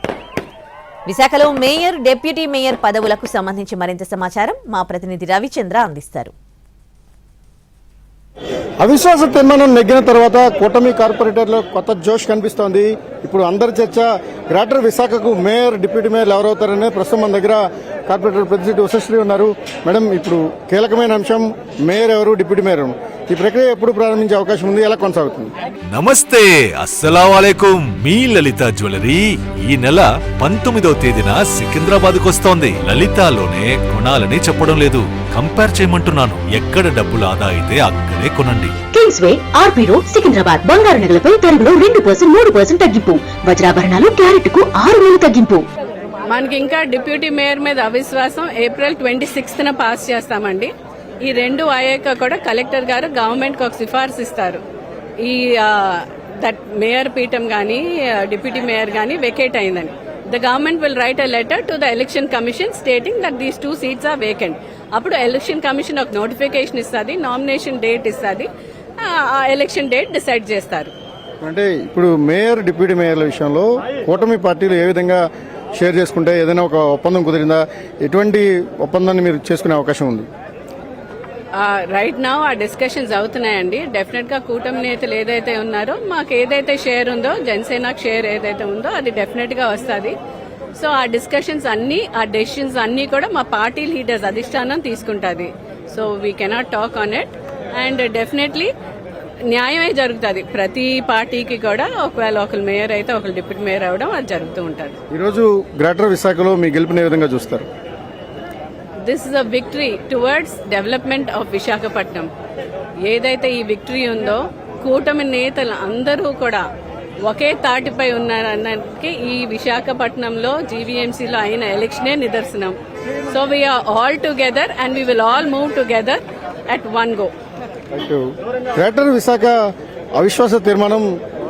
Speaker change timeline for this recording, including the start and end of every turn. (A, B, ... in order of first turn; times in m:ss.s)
0:01.1-0:06.3 A
0:08.8-0:25.5 B
0:25.9-0:38.8 C
0:38.9-0:45.7 D
0:46.3-0:50.7 E
0:51.2-0:54.6 E
0:55.2-1:10.9 E
1:11.4-1:15.2 B
1:15.8-1:20.3 B
1:21.6-1:30.2 E
1:30.8-1:38.7 E
1:39.5-1:45.0 E
1:45.1-1:47.7 B
1:49.0-1:52.3 E
1:53.0-1:56.6 E
1:57.2-2:02.8 E
2:03.3-2:07.3 E
2:07.9-2:09.6 B
2:10.2-2:11.1 B